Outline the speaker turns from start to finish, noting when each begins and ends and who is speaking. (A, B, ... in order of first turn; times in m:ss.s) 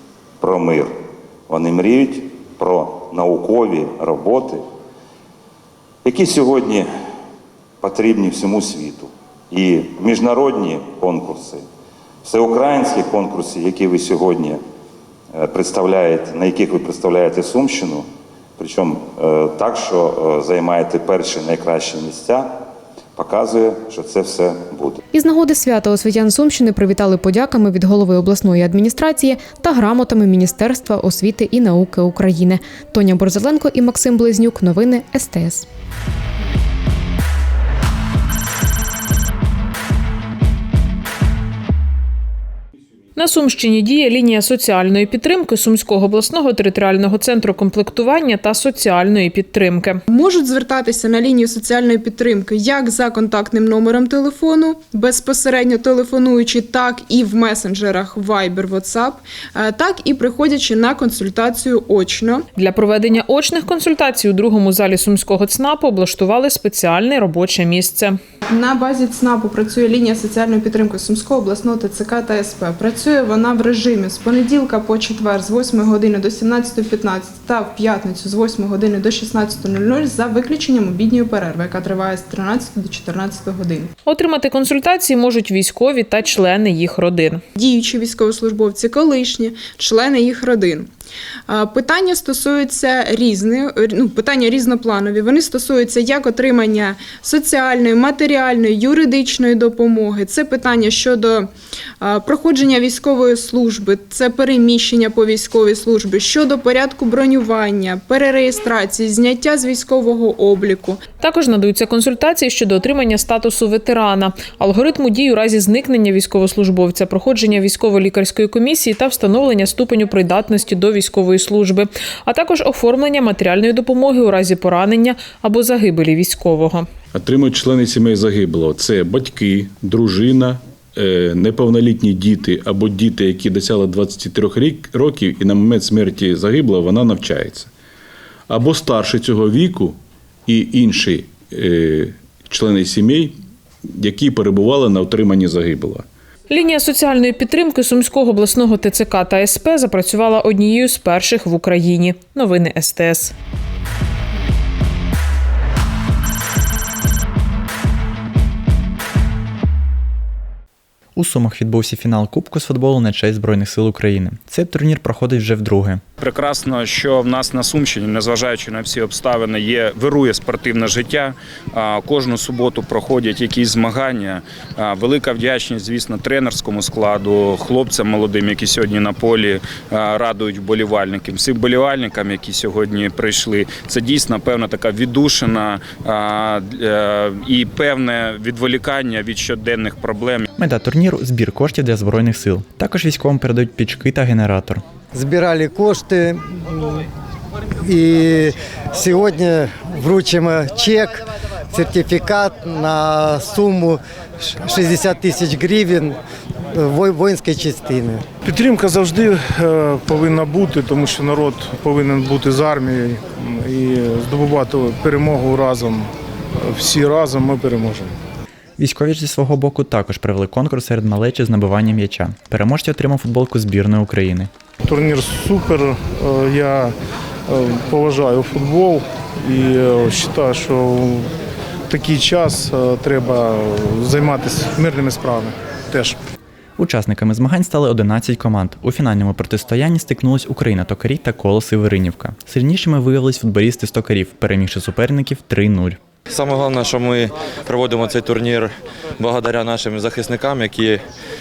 0:00.4-0:01.0 A
0:01.5-0:04.6 A
0:06.0-0:06.9 A
0:07.8-0:11.6 A
0:12.2-0:14.6 A
0:15.4-0:18.0 A
0:18.6-0:22.5 A
0:23.2-0:25.0 A
0:25.1-0:35.7 B
0:43.2-0:50.0 C
0:50.1-1:02.5 D
1:02.6-1:08.2 C
1:08.5-1:23.9 D
1:24.1-1:27.4 C
1:27.6-1:30.9 D
1:31.5-1:41.5 D
1:42.0-1:51.0 D
1:51.1-2:06.9 C
2:07.2-2:17.7 E
2:18.5-2:20.0 E
2:20.5-2:23.3 E
2:24.0-2:26.0 E
2:26.5-2:33.3 C
2:41.2-2:46.0 F
2:46.2-3:10.5 G
3:10.6-3:14.8 F
3:15.2-3:16.4 H
3:17.9-3:21.2 H
3:21.7-3:24.0 H
3:24.7-3:26.1 H
3:26.8-3:28.2 H
3:28.4-3:36.1 I
3:36.6-3:38.2 I
3:38.8-3:44.5 F
3:44.8-3:46.9 I
3:47.5-3:51.3 I
3:51.9-3:56.2 I
3:56.8-4:06.0 F
4:06.3-4:11.0 J